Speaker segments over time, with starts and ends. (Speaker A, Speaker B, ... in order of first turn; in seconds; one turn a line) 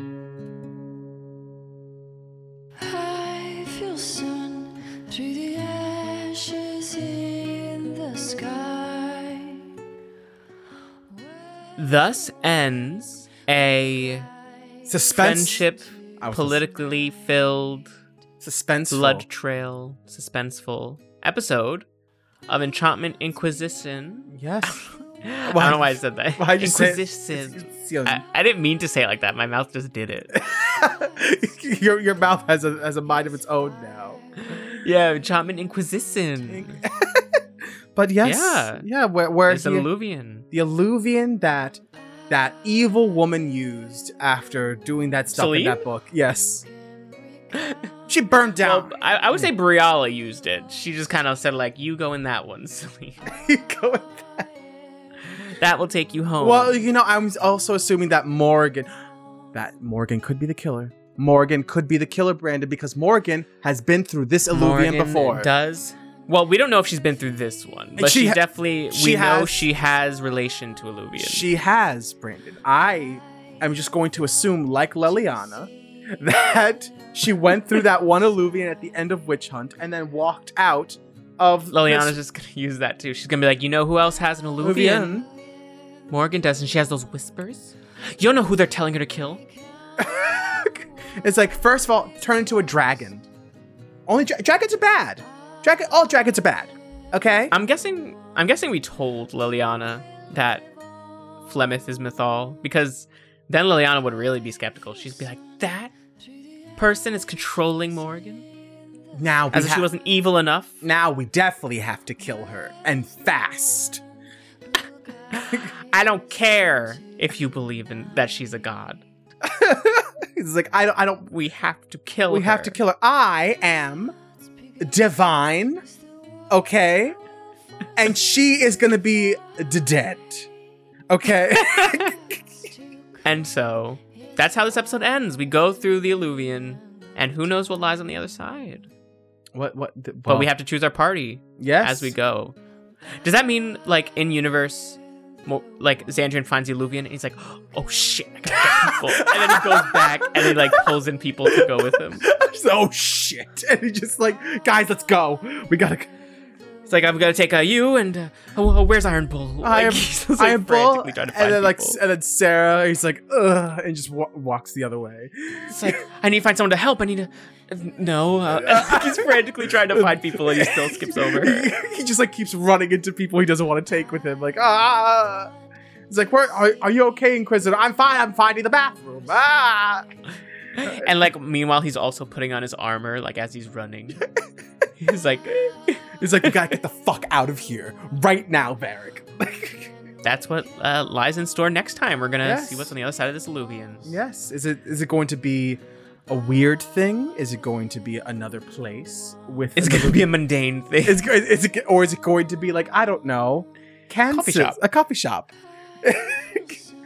Speaker A: 3.2-4.6
Speaker A: 6.0-6.3
Speaker A: 8.7-9.3
Speaker B: 11.8-14.3
Speaker C: 14.8-15.7
Speaker B: 15.1-17.9
Speaker C: 16.2-16.6
Speaker C: 18.4-19.3
Speaker B: 18.9-21.9
Speaker B: 22.5-30.3
Speaker C: 24.3-24.8
Speaker C: 25.5-28.2
Speaker C: 30.3-34.2
Speaker B: 34.5-36.8
Speaker C: 36.5-37.4
Speaker C: 38.0-39.9
Speaker B: 38.2-38.9
Speaker B: 39.5-40.5
Speaker C: 40.5-46.7
Speaker B: 45.3-45.9
Speaker B: 47.5-47.9
Speaker C: 48.1-49.5
Speaker B: 48.6-53.2
Speaker C: 53.3-54.5
Speaker B: 55.3-56.8
Speaker C: 56.4-58.9
Speaker C: 59.5-65.5
Speaker B: 64.5-71.5
Speaker C: 68.0-69.7
Speaker C: 71.2-82.2
Speaker B: 81.7-85.2
Speaker C: 84.6-85.3
Speaker B: 86.1-89.4
Speaker C: 90.0-93.2
Speaker C: 94.1-97.5
Speaker B: 97.5-100.7
Speaker B: 101.5-105.9
Speaker B: 106.8-108.5
Speaker C: 109.2-109.9
Speaker B: 109.5-110.8
Speaker C: 110.8-114.0
Speaker B: 115.3-119.0
Speaker C: 119.4-121.3
Speaker B: 121.3-122.8
Speaker C: 122.3-124.2
Speaker C: 124.8-125.9
Speaker C: 126.5-127.2
Speaker C: 128.0-130.5
Speaker C: 131.1-132.4
Speaker B: 131.6-132.1
Speaker B: 133.2-138.9
Speaker C: 139.5-140.5
Speaker B: 140.3-142.6
Speaker C: 141.6-142.1
Speaker B: 143.2-152.2
Speaker C: 148.5-150.9
Speaker C: 151.5-156.1
Speaker B: 156.9-162.0
Speaker C: 159.6-166.0
Speaker B: 165.7-171.7
Speaker C: 168.5-175.5
Speaker C: 176.1-180.2
Speaker B: 180.8-184.2
Speaker C: 180.8-181.1
Speaker B: 185.0-186.8
Speaker C: 186.2-189.9
Speaker B: 190.2-194.2
Speaker C: 192.4-192.9
Speaker C: 194.0-200.3
Speaker B: 199.8-201.2
Speaker C: 201.1-205.5
Speaker B: 204.3-204.8
Speaker C: 206.0-206.8